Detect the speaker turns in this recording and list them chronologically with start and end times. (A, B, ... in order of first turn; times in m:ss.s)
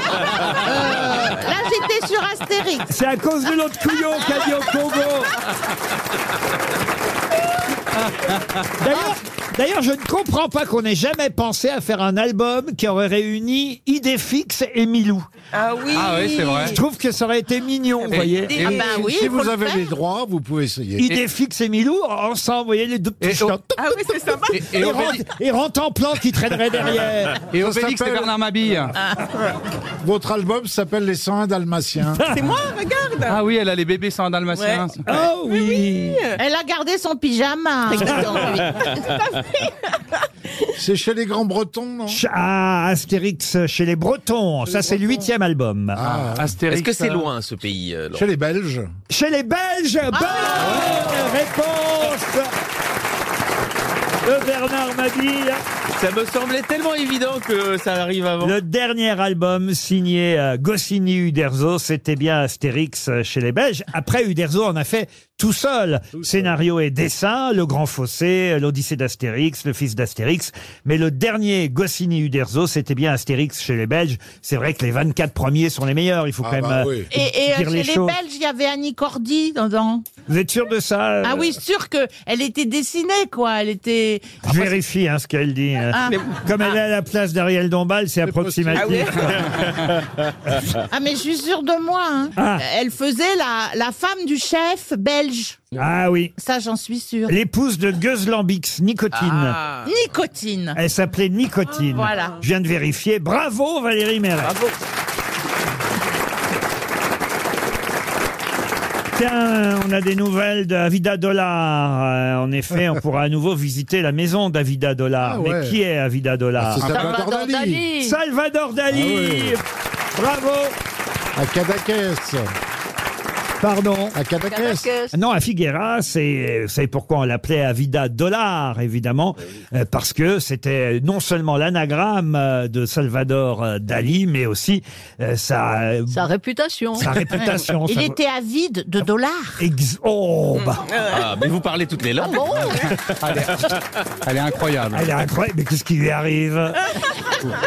0:00.5-0:02.9 A
0:02.9-0:05.4 B
0:08.1-0:08.5 C
0:08.8-0:15.3 B
0:15.5-0:16.8 D
0:15.9-0:16.8 C
0:16.6-0:18.8 B
0:18.0-0:19.0 D
0:18.1-0:18.9 C
0:18.6-0:19.9 A
0:18.8-0:21.1 E
0:21.0-0:27.4 B
0:23.2-0:23.5 C
0:23.8-0:25.0 D
0:24.5-0:25.2 C
0:27.5-0:28.9 C
0:27.6-0:28.3 E
0:30.0-0:32.2 E
0:32.2-0:33.4 D
0:33.3-0:35.0 C
0:34.5-0:34.9 D
0:35.1-0:36.2 B
0:35.5-0:36.4 D
0:36.4-0:38.7 A
0:37.9-0:39.4 D
0:40.8-0:42.2 E
0:42.1-0:46.0 B
0:46.0-0:46.6 E
0:46.0-0:47.2 C
0:46.7-0:48.3 F
0:48.1-0:48.9 E
0:49.1-0:52.5 B
0:50.1-0:51.2 A
0:54.2-0:55.6 B
0:55.9-0:58.6 F
0:58.4-1:18.2 B
1:16.4-1:17.1 E
1:17.1-1:20.0 A
1:20.3-1:21.5 B
1:21.2-1:24.8 A
1:24.4-1:29.4 B
1:25.9-1:26.2 A
1:28.3-1:29.1 E
1:28.8-1:29.2 D
1:29.5-1:30.0 F
1:30.9-1:35.6 A
1:32.4-1:32.6 B
1:35.8-1:36.3 B
1:36.4-1:37.4 A
1:37.3-1:39.6 B
1:39.1-1:39.9 F
1:39.8-1:40.8 A
1:40.8-1:44.6 B
1:42.0-1:42.4 A
1:49.2-1:57.1 B
1:55.2-1:55.8 E
1:56.6-1:57.9 E
1:56.8-1:58.2 G
1:58.0-1:59.6 B
1:58.9-1:59.6 E
2:00.2-2:00.8 B
2:01.4-2:02.5 E
2:03.6-2:04.2 B
2:04.1-2:04.9 E
2:04.4-2:05.2 G
2:05.1-2:16.2 B
2:16.1-2:17.2 G
2:16.9-2:18.2 B
2:17.4-2:19.6 A
2:19.6-2:20.8 B
2:20.9-2:21.2 D
2:21.1-2:23.8 F
2:22.2-2:22.8 G
2:23.2-2:25.1 C
2:24.9-2:26.8 B